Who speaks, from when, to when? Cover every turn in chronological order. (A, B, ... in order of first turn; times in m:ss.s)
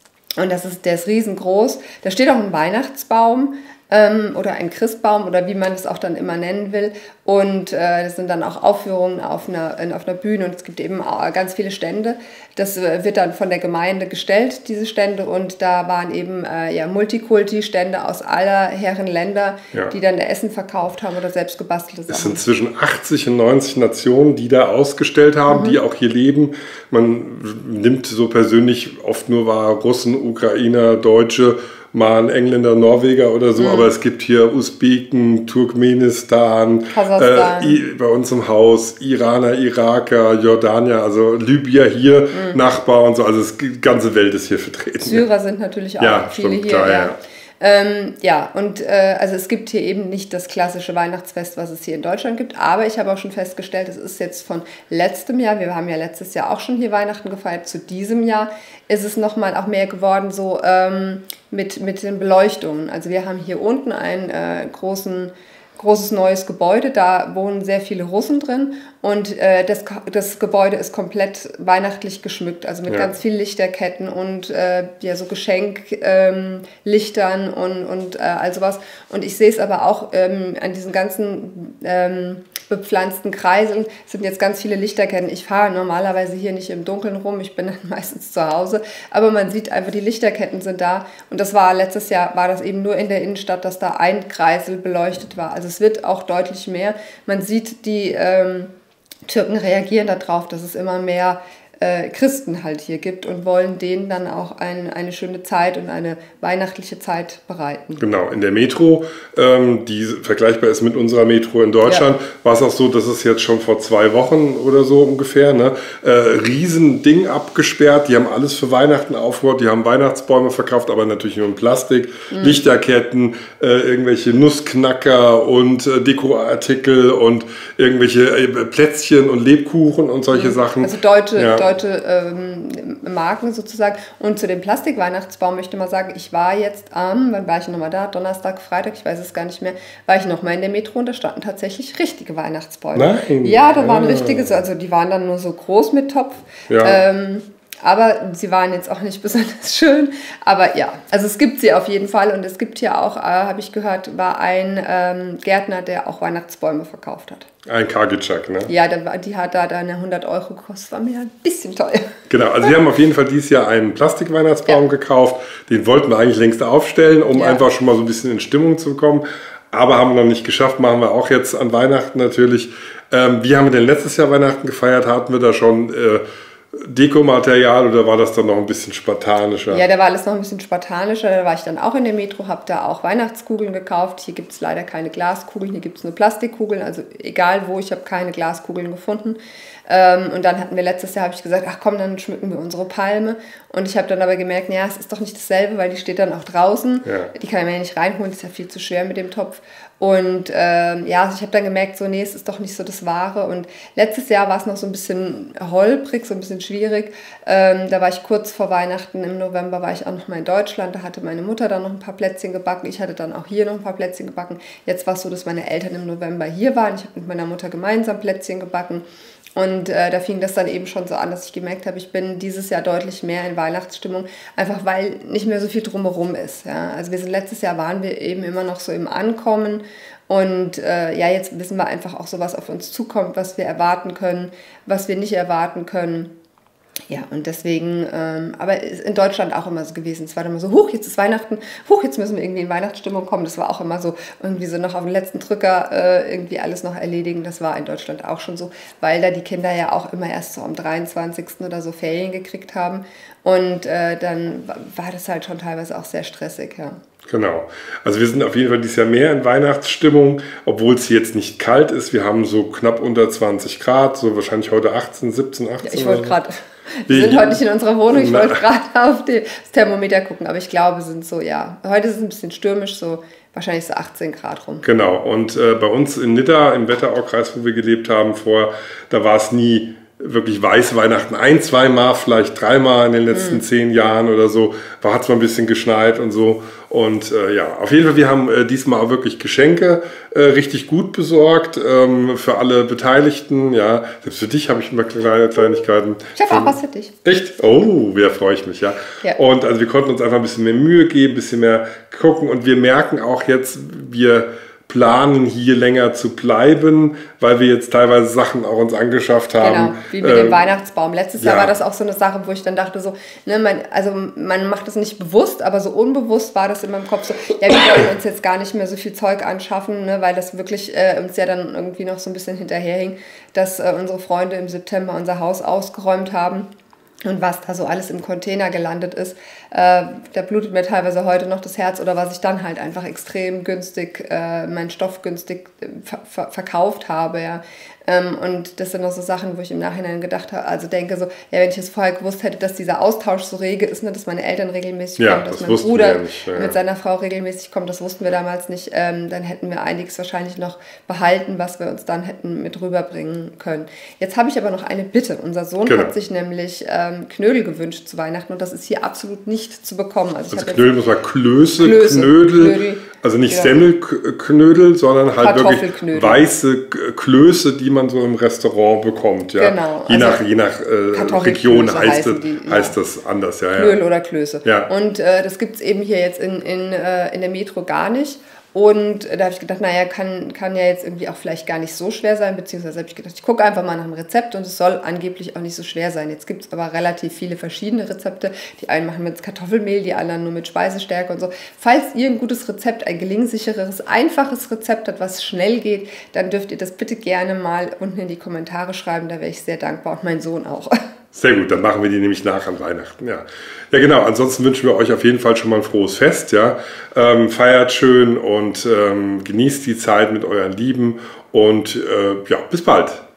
0:00.4-0:22.4 A
0:22.1-0:45.2 B
0:25.5-0:25.8 A
0:33.6-0:33.9 A
0:36.9-0:37.8 A
0:42.3-0:42.6 A
0:45.0-1:38.7 A
0:46.0-0:47.1 B
1:39.3-1:48.0 A
1:48.0-2:11.6 B
2:02.3-2:02.6 A
2:10.3-2:37.5 A
2:22.9-2:24.5 B
2:26.7-2:27.0 B
2:37.7-2:38.7 B
2:38.7-2:42.1 A
2:42.3-2:56.2 B
2:47.3-2:47.6 A
2:56.7-2:59.8 B
2:59.7-3:39.0 A
3:17.1-3:17.3 B
3:39.6-3:56.3 A
3:57.1-4:17.0 A
4:17.3-4:26.4 B
4:25.8-4:34.9 A
4:27.1-4:28.6 B
4:34.8-5:10.6 B
4:43.3-4:43.6 A
4:56.4-4:57.1 A
5:09.6-5:26.7 A
5:11.4-5:11.7 B
5:27.2-6:00.9 A
5:45.2-5:46.8 B
5:55.9-5:56.1 B
6:00.5-6:14.0 B
6:01.8-6:03.8 A
6:05.4-6:06.4 A
6:09.6-6:10.4 A
6:11.1-6:13.0 A
6:13.8-6:41.0 A
6:14.6-6:14.9 B
6:41.3-6:53.2 B